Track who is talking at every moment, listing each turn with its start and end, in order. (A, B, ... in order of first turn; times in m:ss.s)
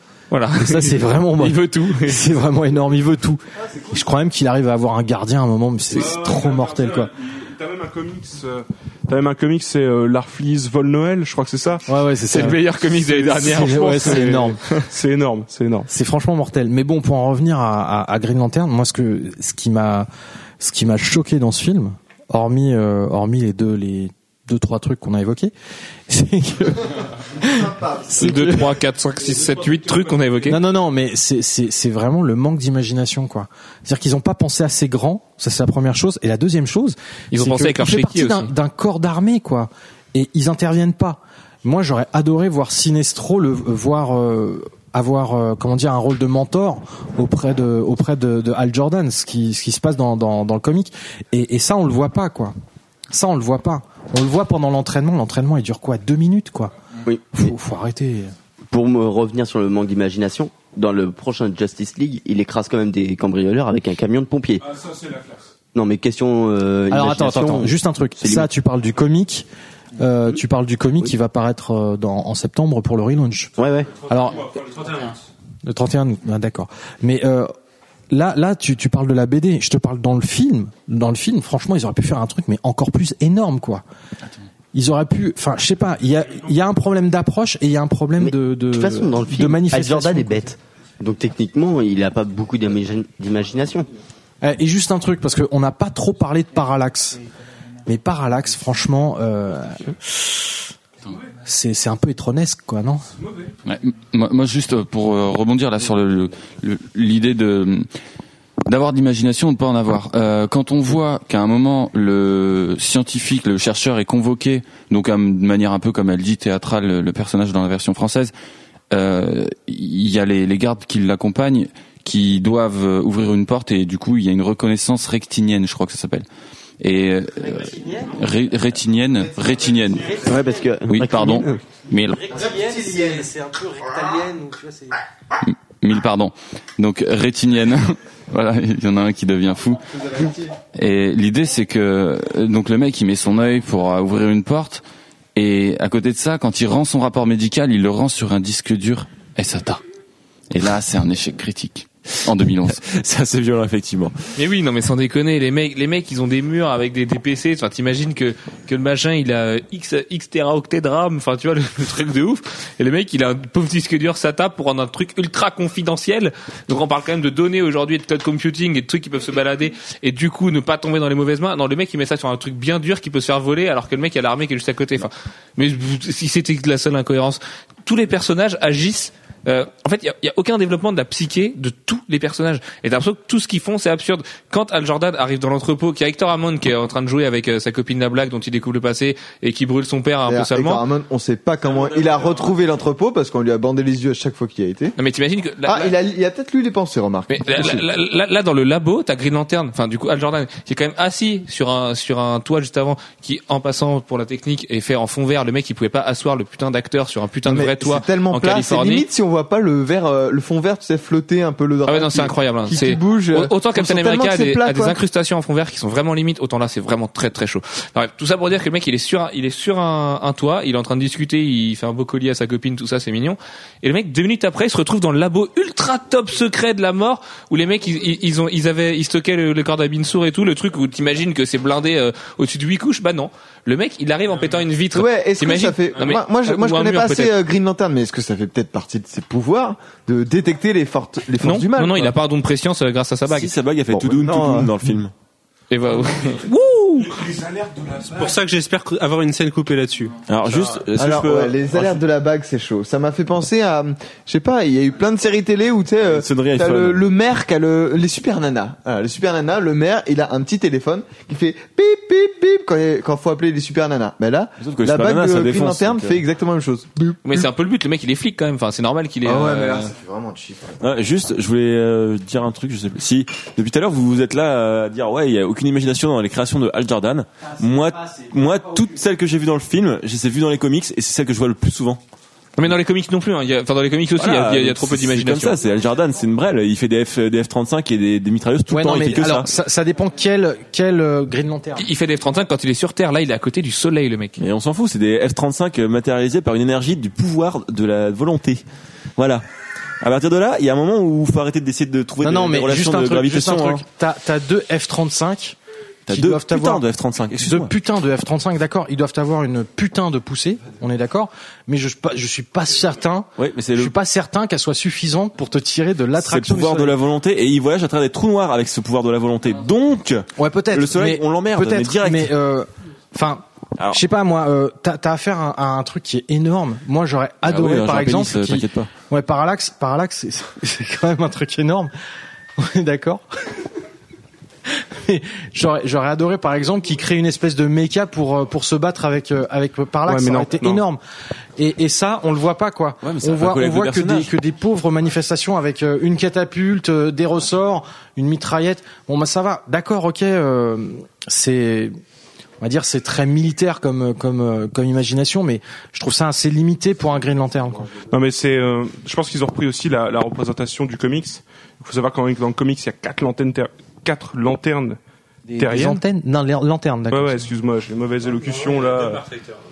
0:00.3-0:02.2 A
0:00.6-0:07.1 B
0:05.9-0:11.8 C
0:11.9-0:12.6 B
0:12.3-0:14.8 A
0:13.0-0:15.9 C
0:13.4-0:14.6 B
0:15.9-0:20.1 B
0:20.6-0:25.5 B
0:26.1-0:28.7 B
0:27.4-0:28.6 D
0:28.2-0:30.6 A
0:30.5-0:52.6 B
0:37.3-0:38.5 A
0:53.1-0:56.7 B
0:57.1-0:57.5 E
0:57.4-0:58.3 B
0:58.7-1:04.7 E
1:04.6-1:05.5 C
1:05.7-1:08.5 E
1:06.9-1:15.1 B
1:13.6-1:14.1 E
1:14.3-1:15.0 C
1:15.6-1:17.5 B
1:18.1-1:23.8 B
1:24.7-1:30.5 B
1:28.2-1:33.9 E
1:34.4-1:37.2 B
1:37.9-1:40.6 B
1:41.4-1:43.2 B
1:43.6-1:47.9 F
1:48.7-1:58.3 F
1:58.9-2:06.3 F
2:06.8-2:10.2 F
2:07.4-2:08.2 B
2:09.5-2:10.7 B
2:10.2-2:11.6 E
2:10.9-2:12.3 F
2:12.2-2:15.0 B
2:12.3-2:13.3 D
2:15.4-2:19.8 F
2:19.8-2:20.5 D
2:20.8-2:24.8 F
2:25.4-2:29.8 F
2:30.5-2:32.8 F
2:32.7-2:34.2 G
2:34.4-3:10.8 A
3:10.3-3:15.0 D
3:15.0-3:15.9 A
3:15.6-3:17.8 D
3:17.3-3:29.0 A
3:27.5-3:35.0 D
3:31.9-3:57.3 A
3:54.9-4:02.1 D
4:01.4-4:03.5 A
4:03.3-4:05.1 G
4:03.9-4:04.7 D
4:05.7-4:07.2 A
4:07.1-4:08.2 C
4:08.1-4:10.2 H
4:10.3-4:12.0 G
4:11.0-4:27.2 D
4:16.0-4:17.0 G
4:24.6-4:26.2 G
4:27.2-4:29.9 A
4:29.2-4:30.8 D
4:30.8-4:42.0 G
4:42.6-4:45.6 A
4:44.2-4:49.5 G
4:48.7-4:51.9 B
4:51.8-4:54.4 A
4:54.4-4:58.6 G
4:59.2-4:59.4 G
5:00.0-5:03.8 G
5:02.2-5:05.6 B
5:06.1-5:07.7 G
5:06.1-5:06.8 B
5:07.4-5:17.0 B
5:13.4-5:13.9 G
5:16.2-5:22.3 G
5:20.4-5:31.9 B
5:23.8-5:24.0 G
5:27.4-5:28.9 G
5:32.6-5:33.2 B
5:34.9-5:41.0 B
5:40.1-5:40.8 C
5:41.6-5:52.0 B
5:43.0-5:44.3 G
5:52.6-5:57.9 B
5:58.1-6:05.0 C
6:05.6-6:06.0 C
6:05.6-6:07.5 B
6:07.1-6:09.4 C